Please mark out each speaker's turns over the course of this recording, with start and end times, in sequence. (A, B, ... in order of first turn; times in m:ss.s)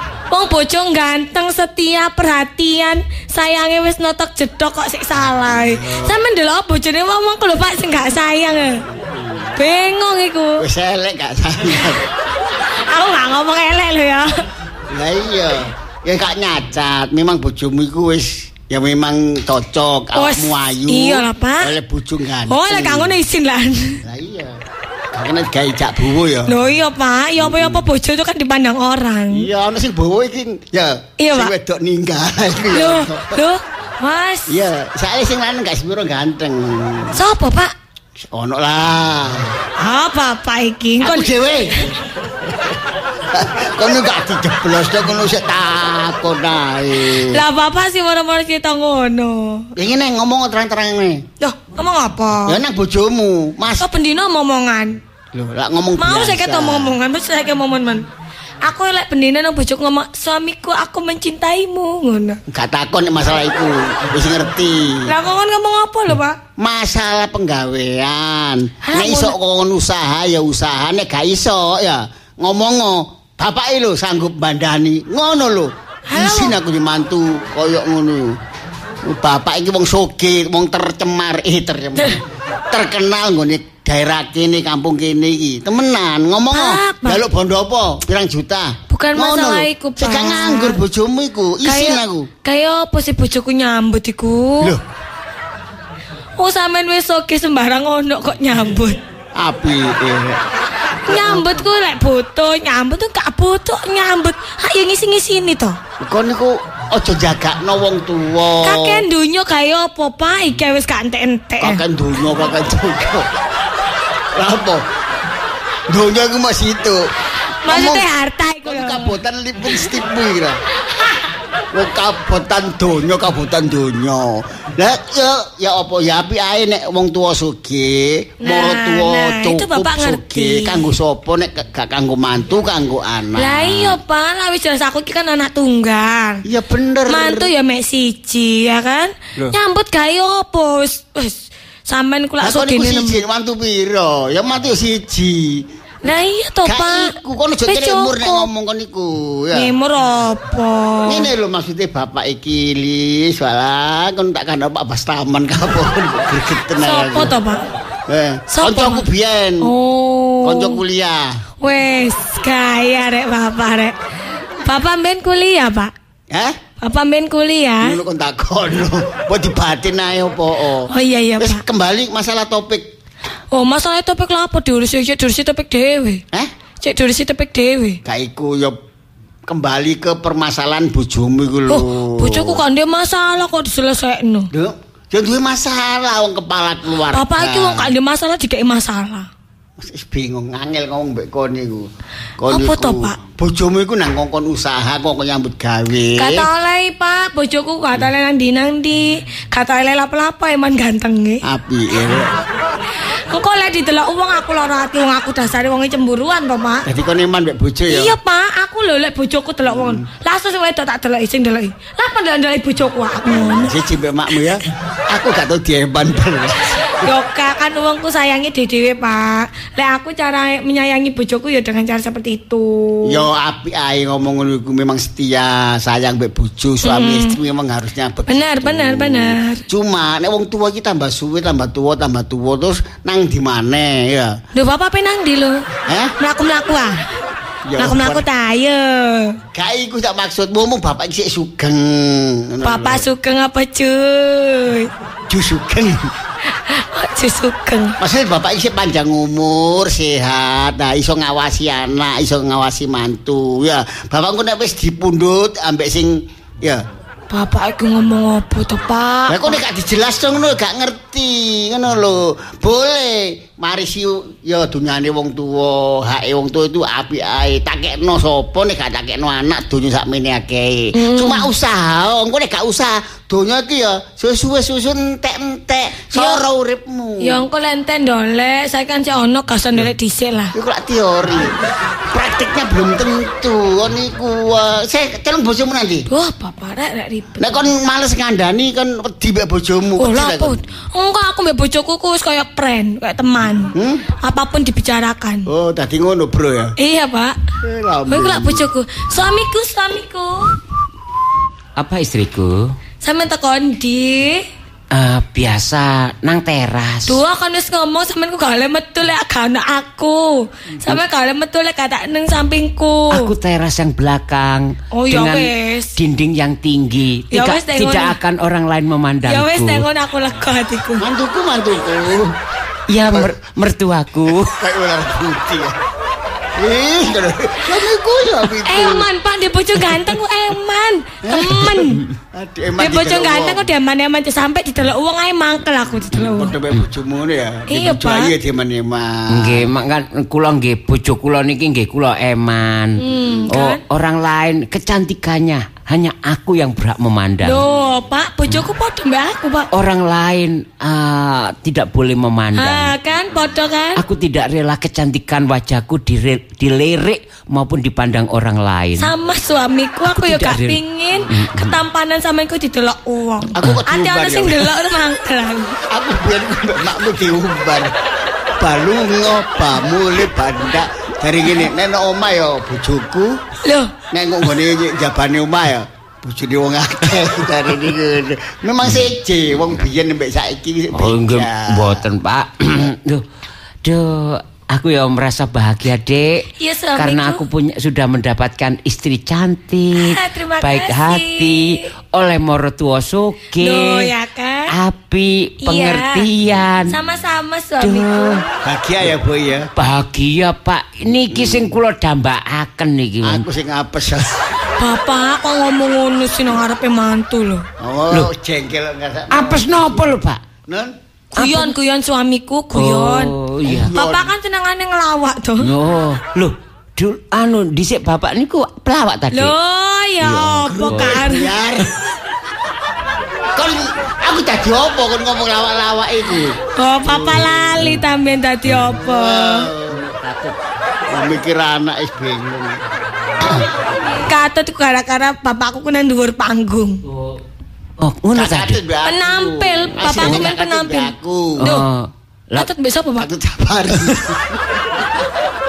0:00.3-0:08.8 A
0:05.7-0:06.2 B
0:08.9-0:09.5 B
0:09.6-0:10.7 A
0:10.6-0:12.0 B
0:12.9-0:14.4 A
0:14.9-0:23.2 B
0:20.2-0:21.7 A
0:22.5-0:24.0 A
0:24.0-0:24.6 B
0:25.1-0:26.6 B
0:26.5-0:29.5 A
0:27.4-0:27.8 B
0:29.3-0:33.4 B
0:31.2-0:31.5 A
0:32.7-0:34.6 A
0:34.5-0:37.2 B
0:37.1-0:37.7 A
0:38.2-0:39.6 B
0:39.8-0:41.8 A
0:41.0-0:41.8 B
0:43.3-0:47.4 B
0:47.1-0:49.7 A
0:49.8-0:51.2 B
0:51.4-0:52.6 A
0:52.4-0:53.9 B
0:53.8-0:55.0 A
0:55.3-0:57.0 B
0:56.0-0:58.0 A
0:58.6-1:02.4 A
1:02.5-1:05.1 B
1:05.0-1:06.4 A
1:06.6-1:18.4 B
1:08.9-1:09.3 A
1:16.1-1:16.6 A
1:19.0-1:32.3 B
1:26.5-1:27.2 A
1:28.9-1:30.8 A
1:31.6-1:34.7 A
1:36.4-1:39.0 A
1:39.4-1:40.4 B
1:41.0-1:41.6 B
1:41.0-1:45.8 A
1:46.0-1:49.0 B
1:48.6-1:51.8 A
1:51.6-1:53.3 B
1:54.3-1:54.9 B
1:55.9-1:57.0 B
1:57.6-1:59.1 A
1:57.7-1:58.1 B
1:58.6-2:00.6 B
2:01.7-2:14.0 B
2:08.4-2:10.8 A
2:13.3-2:16.4 A
2:16.4-2:17.5 B
2:17.1-2:23.2 A
2:22.4-2:25.7 B
2:26.0-2:28.5 A
2:26.6-2:29.7 B
2:29.5-2:31.3 A
2:31.0-2:37.3 B
2:36.8-2:37.6 A
2:38.1-2:39.7 B
2:38.5-2:39.0 A
2:39.6-2:40.8 A
2:40.4-2:41.4 B
2:41.6-2:44.0 A
2:44.6-2:45.9 A
2:46.3-2:46.6 B
2:46.8-2:48.0 A
2:47.8-2:52.9 B
2:50.9-2:51.6 A
2:53.5-2:56.2 A
2:56.8-2:58.0 A
2:58.0-2:58.8 B
2:59.5-3:02.6 B
3:01.7-3:04.5 A
3:04.5-3:07.9 B
3:07.1-3:09.3 A
3:09.8-3:16.5 B
3:12.5-3:13.2 A
3:16.2-3:21.4 A
3:21.4-3:22.3 B
3:23.3-3:26.9 A
3:26.8-3:28.2 B
3:27.9-3:33.7 A
3:29.7-3:30.0 B
3:33.2-3:36.9 B
3:36.9-3:43.2 A
3:43.0-3:54.4 B
3:46.8-3:47.3 A
3:48.3-3:49.6 A
3:54.5-3:55.6 A
3:55.9-3:56.1 B
3:56.2-3:57.0 A
3:57.7-3:58.2 B
3:57.8-3:59.4 A
3:59.5-4:03.0 B
4:02.6-4:04.9 A
4:05.3-4:06.1 B
4:06.6-4:08.0 A
4:08.0-4:16.8 B
4:17.3-4:19.6 A
4:19.3-4:37.4 B
4:31.0-4:31.5 A
4:36.1-4:36.4 A
4:37.2-4:40.5 A
4:40.5-4:41.5 B
4:42.1-4:46.1 B
4:46.1-4:47.5 A
4:47.4-4:50.6 B
4:50.0-4:55.5 A
4:53.8-4:54.0 B
4:55.5-4:56.7 B
4:56.8-4:57.4 A
4:57.6-4:58.7 B
4:58.1-5:00.5 A
5:01.8-5:02.7 C
5:03.0-5:04.5 A
5:04.9-5:07.2 C
5:07.1-5:13.3 A
5:13.1-5:19.9 C
5:14.9-5:15.9 A
5:17.3-5:18.2 A
5:19.3-5:21.0 A
5:21.0-5:22.4 B
5:22.9-5:24.6 C
5:24.2-5:25.8 B
5:26.6-5:29.1 B
5:28.6-5:32.0 A
5:31.2-5:33.7 B
5:32.8-5:36.5 A
5:36.1-5:39.7 B
5:37.7-5:38.3 A
5:39.3-5:47.6 C
5:43.0-5:43.8 A
5:47.4-5:49.7 A
5:49.7-5:52.9 C
5:52.6-5:54.0 A
5:54.0-5:59.1 C
5:59.0-6:05.8 A
6:00.0-6:01.8 C
6:03.6-6:04.7 B
6:05.9-6:07.9 B
6:08.6-6:13.4 B
6:13.6-6:13.9 A
6:14.1-6:22.0 B
6:20.9-6:23.2 C
6:23.8-6:34.1 C
6:26.6-6:27.4 A
6:29.9-6:31.8 A
6:33.6-6:34.7 A
6:34.7-6:37.0 C
6:35.6-6:36.2 A
6:36.9-6:38.4 A
6:37.8-6:38.4 C
6:38.6-6:39.7 B
6:39.8-6:43.4 C
6:41.3-6:41.7 B
6:43.2-6:44.4 B
6:44.8-6:47.6 A
6:47.8-6:50.1 B
6:49.3-6:50.4 C
6:50.7-6:50.9 B
6:51.4-6:53.3 A
6:51.4-6:51.7 C
6:52.7-6:53.9 C
6:53.6-6:54.3 B
6:53.9-6:55.7 A
6:55.6-6:59.5 C
6:59.3-7:01.5 A
7:00.2-7:01.2 C
7:00.8-7:01.9 B
7:03.5-7:07.9 B
7:06.8-7:09.7 A
7:08.9-7:10.0 B
7:09.9-7:10.5 C
7:11.1-7:12.8 B
7:13.4-7:13.7 B
7:14.1-7:17.0 A
7:18.0-7:18.8 C
7:18.3-7:21.7 B
7:19.0-7:21.1 A
7:20.0-7:20.5 C
7:21.6-7:22.7 C
7:22.6-7:23.3 A
7:23.2-7:24.5 B